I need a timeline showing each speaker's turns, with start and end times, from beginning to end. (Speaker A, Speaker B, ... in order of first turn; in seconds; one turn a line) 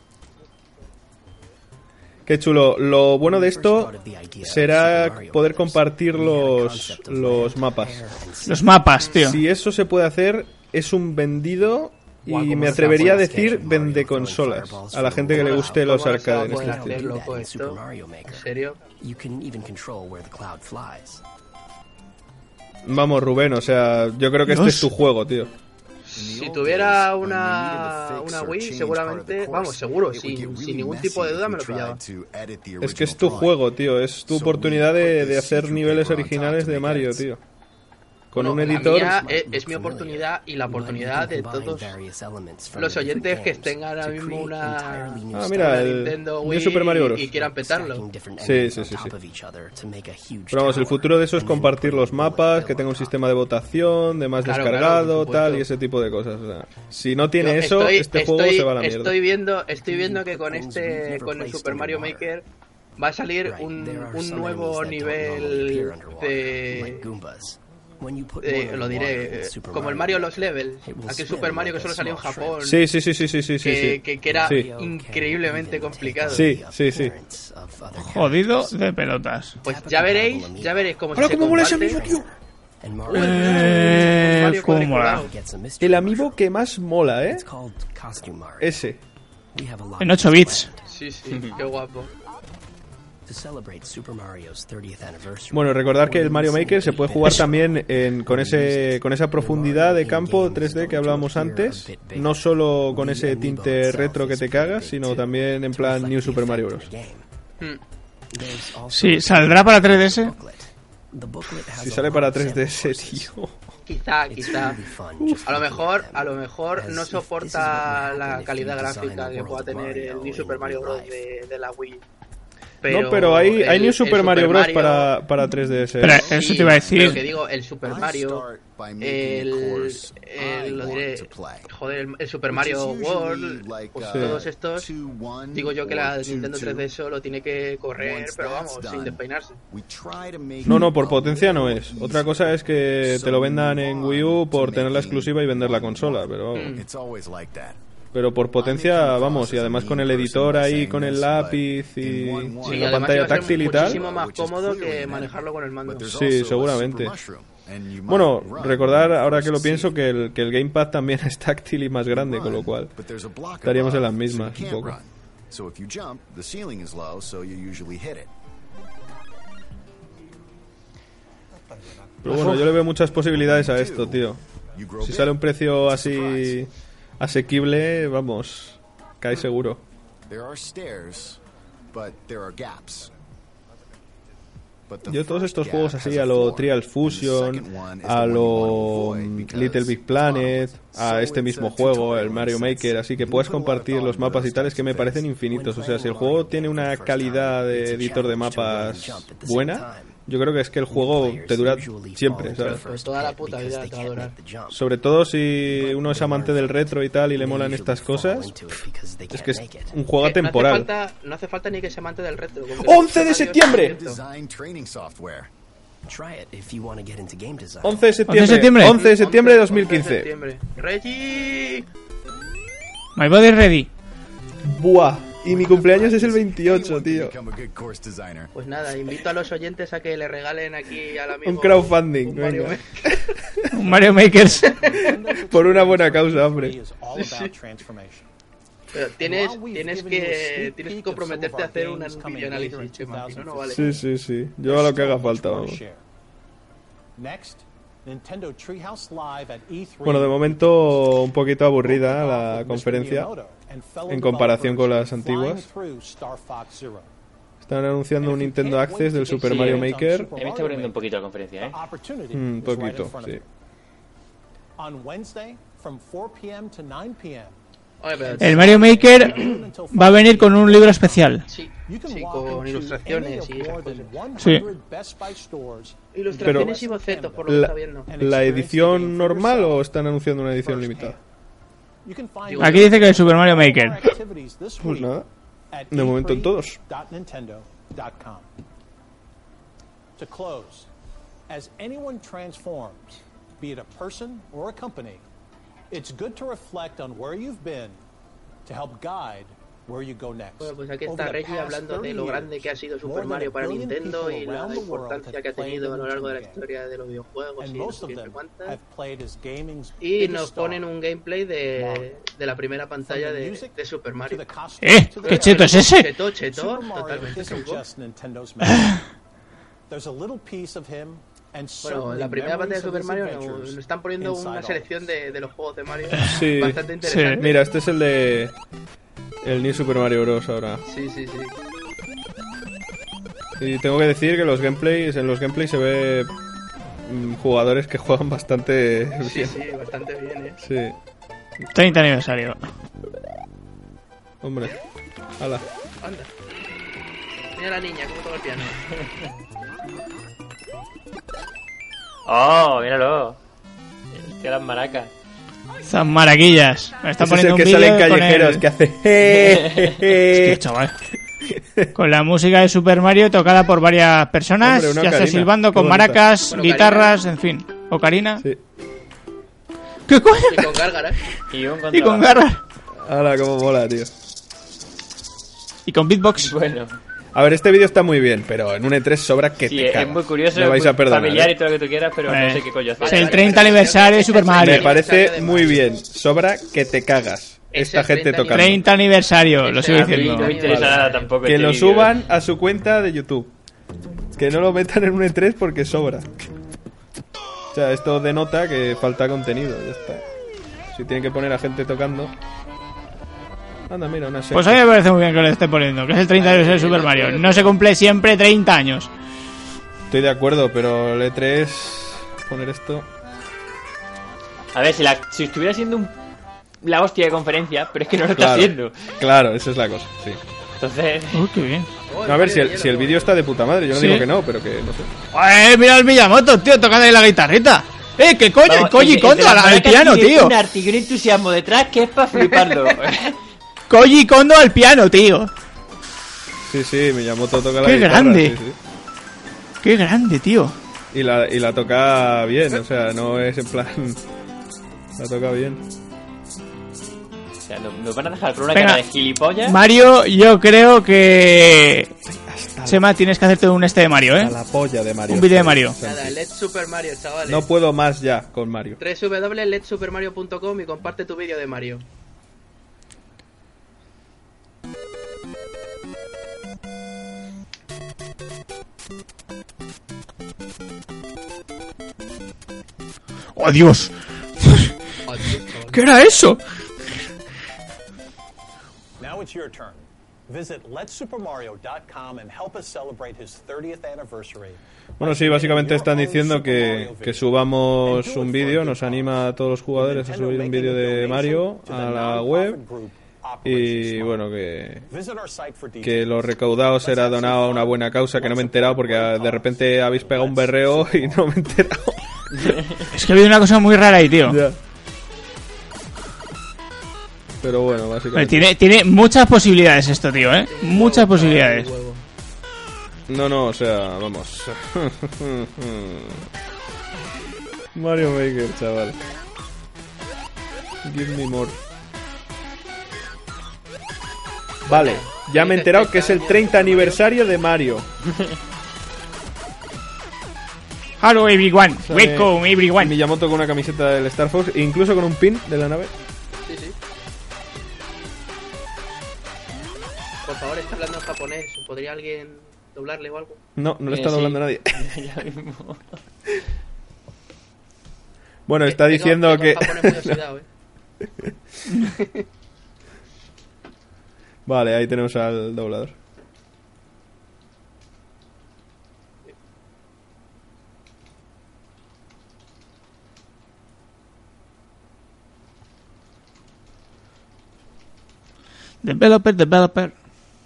Speaker A: 2.2-8.0
Speaker B: 3.2-8.7
Speaker C: 8.4-9.4
Speaker D: 9.0-9.2
Speaker A: 9.2-17.0
Speaker B: 12.3-18.5
Speaker D: 15.3-18.8
Speaker B: 19.0-21.2
Speaker A: 22.8-25.5
Speaker C: 24.5-24.9
Speaker D: 26.1-32.0
Speaker E: 26.1-33.7
Speaker A: 32.8-37.4
Speaker E: 34.3-37.2
Speaker A: 38.3-39.2
Speaker D: 38.3-41.9
Speaker B: 38.6-45.9
Speaker D: 42.7-48.0
Speaker A: 45.3-47.3
Speaker B: 47.3-53.1
Speaker A: 48.4-49.1
Speaker A: 50.5-59.2
Speaker D: 54.4-55.7
Speaker D: 57.4-62.4
Speaker B: 59.8-62.3
Speaker D: 63.0-67.1
Speaker B: 63.4-72.7
Speaker D: 68.4-72.8
Speaker A: 72.6-74.7
Speaker D: 73.6-76.5
Speaker B: 74.2-78.8
Speaker A: 76.3-77.2
Speaker C: 78.0-79.6
Speaker D: 79.6-82.0
Speaker B: 79.6-83.9
Speaker A: 81.1-82.2
Speaker D: 83.1-85.3
Speaker C: 83.1-85.2
Speaker B: 84.5-86.4
Speaker A: 85.8-87.4
Speaker B: 87.2-88.8
Speaker A: 88.6-89.0
Speaker B: 89.5-90.8
Speaker C: 90.0-90.7
Speaker D: 90.9-92.1
Speaker B: 93.2-107.2
Speaker A: 95.5-106.9
Speaker B: 108.3-113.3
Speaker C: 108.9-110.3
Speaker A: 111.7-113.5
Speaker D: 113.9-114.8
Speaker B: 114.3-121.2
Speaker D: 115.4-122.0
Speaker D: 122.8-125.1
Speaker A: 122.9-126.3
Speaker C: 126.0-127.2
Speaker E: 126.0-131.7
Speaker D: 126.1-128.4
Speaker D: 129.0-134.9
Speaker E: 132.5-136.9
Speaker A: 134.1-134.4
Speaker D: 135.5-139.6
Speaker E: 137.9-147.8
Speaker A: 140.6-146.8
Speaker D: 146.5-146.8
Speaker A: 148.1-154.0
Speaker E: 148.6-159.9
Speaker D: 152.6-156.2
Speaker A: 156.1-157.2
Speaker A: 158.1-163.0
Speaker E: 162.1-168.3
Speaker A: 163.6-165.0
Speaker F: 171.7-172.3
Speaker A: 172.2-174.4
Speaker E: 173.3-176.6
Speaker A: 175.0-179.8
Speaker E: 180.3-181.4
Speaker E: 181.9-183.1
Speaker E: 184.9-196.1
Speaker A: 185.1-202.8
Speaker B: 195.7-200.2
Speaker B: 200.9-204.8
Speaker D: 202.6-204.3
Speaker A: 204.7-208.6
Speaker B: 205.6-210.0
Speaker A: 209.3-210.9
Speaker D: 210.2-214.2
Speaker A: 212.8-214.0
Speaker E: 213.7-215.5
Speaker B: 216.1-218.1
Speaker A: 217.8-220.3
Speaker C: 218.3-219.0
Speaker D: 218.8-221.8
Speaker C: 223.2-223.9
Speaker A: 224.6-227.3
Speaker E: 225.4-228.5
Speaker D: 228.5-233.1
Speaker A: 231.4-233.4
Speaker C: 233.7-234.7
Speaker F: 233.8-238.2
Speaker D: 234.6-235.2
Speaker A: 235.5-236.8
Speaker D: 237.1-237.5
Speaker D: 238.9-243.9
Speaker F: 239.2-244.0
Speaker A: 243.7-245.8
Speaker F: 244.6-246.0
Speaker F: 247.2-251.0
Speaker A: 250.0-253.3
Speaker F: 251.8-257.1
Speaker A: 254.1-255.7
Speaker A: 257.6-260.3
Speaker F: 258.2-261.0
Speaker G: 259.4-261.8
Speaker F: 261.6-263.4
Speaker A: 262.3-263.4
Speaker F: 264.8-267.6
Speaker D: 268.0-269.6
Speaker F: 268.1-277.5
Speaker C: 268.4-269.4
Speaker C: 269.9-271.4
Speaker D: 271.5-274.1
Speaker C: 274.4-274.6
Speaker D: 276.1-278.1
Speaker A: 276.4-276.7
Speaker A: 277.5-281.2
Speaker F: 278.1-279.8
Speaker F: 280.6-281.2
Speaker F: 282.0-285.1
Speaker D: 282.4-283.2
Speaker C: 282.6-284.0
Speaker A: 284.8-285.3
Speaker F: 285.7-288.5
Speaker A: 285.9-286.8
Speaker F: 290.2-290.9
Speaker F: 291.5-295.2
Speaker F: 295.9-298.0
Speaker F: 298.6-306.6
Speaker D: 300.6-308.8
Speaker F: 307.6-310.8
Speaker D: 310.0-314.4
Speaker F: 311.7-312.1
Speaker F: 313.0-319.1
Speaker C: 314.8-316.1
Speaker D: 315.2-317.8
Speaker F: 319.9-325.3
Speaker D: 321.8-327.6
Speaker A: 326.3-328.6
Speaker C: 327.0-327.4
Speaker A: 329.4-330.8
Speaker D: 330.8-331.6
Speaker A: 333.6-336.3
Speaker A: 337.0-339.6
Speaker D: 339.2-340.6
Speaker A: 340.6-340.9
Speaker C: 341.7-342.7
Speaker A: 344.4-344.8
Speaker D: 346.0-346.3
Speaker D: 347.5-348.9
Speaker G: 352.2-353.4
Speaker G: 354.1-355.1
Speaker C: 355.8-358.6
Speaker A: 357.2-360.6
Speaker G: 359.2-360.0
Speaker C: 360.3-360.9
Speaker A: 361.4-361.9
Speaker C: 361.9-368.4
Speaker A: 364.6-366.2
Speaker D: 366.5-367.2
Speaker C: 370.1-370.8
Speaker D: 370.5-371.2
Speaker G: 371.5-372.4
Speaker C: 371.9-372.6
Speaker A: 373.0-374.1
Speaker C: 375.9-376.5
Speaker G: 376.4-377.0
Speaker A: 377.3-381.5
Speaker G: 379.6-383.9
Speaker C: 382.3-384.9
Speaker D: 383.0-385.9
Speaker A: 384.6-388.8
Speaker D: 387.7-388.8
Speaker C: 388.5-390.5
Speaker D: 389.6-391.3
Speaker G: 389.9-392.2
Speaker A: 390.7-393.5
Speaker A: 394.4-396.5
Speaker A: 397.7-400.2
Speaker A: 400.9-402.3
Speaker A: 403.9-404.8
Speaker C: 404.5-409.1
Speaker G: 406.4-407.6
Speaker D: 406.6-407.6
Speaker A: 410.1-413.1
Speaker G: 414.7-416.1
Speaker G: 416.8-419.1
Speaker A: 418.3-420.4
Speaker G: 420.8-421.5
Speaker C: 421.3-421.9
Speaker D: 422.1-423.3
Speaker A: 422.2-425.1
Speaker C: 423.9-424.2
Speaker C: 425.3-430.5
Speaker G: 428.6-433.4
Speaker D: 432.4-432.8
Speaker C: 433.9-435.5
Speaker A: 436.6-438.8
Speaker C: 437.8-438.6
Speaker C: 439.8-440.7
Speaker A: 441.1-444.2
Speaker A: 445.2-445.8
Speaker G: 447.6-449.8
Speaker C: 448.7-449.0
Speaker C: 449.6-452.1
Speaker A: 452.2-453.1
Speaker C: 452.9-454.5
Speaker A: 454.4-456.4
Speaker C: 455.3-456.0
Speaker D: 456.0-457.7
Speaker A: 457.4-459.0
Speaker D: 459.0-462.1
Speaker C: 473.5-474.9
Speaker D: 475.2-476.0
Speaker C: 475.9-476.6
Speaker F: 479.2-487.5
Speaker A: 485.2-492.8
Speaker F: 488.0-489.4
Speaker F: 489.9-494.4
Speaker A: 493.6-495.1
Speaker F: 495.1-501.5
Speaker A: 496.0-502.8
Speaker G: 502.6-503.0
Speaker C: 503.1-504.6
Speaker A: 504.4-504.8
Speaker A: 507.6-508.6
Speaker C: 508.3-511.9
Speaker D: 510.7-512.2
Speaker A: 513.3-516.5
Speaker A: 517.9-519.2
Speaker A: 521.0-521.8
Speaker D: 524.9-527.2
Speaker A: 524.9-528.1
Speaker C: 531.2-533.1
Speaker A: 532.0-536.1
Speaker D: 536.6-537.0
Speaker D: 540.4-543.6
Speaker A: 543.8-545.1
Speaker G: 544.1-546.2
Speaker A: 548.7-550.4
Speaker D: 548.9-550.6
Speaker A: 551.2-551.5
Speaker D: 552.0-552.4
Speaker A: 554.6-556.1
Speaker C: 569.0-570.1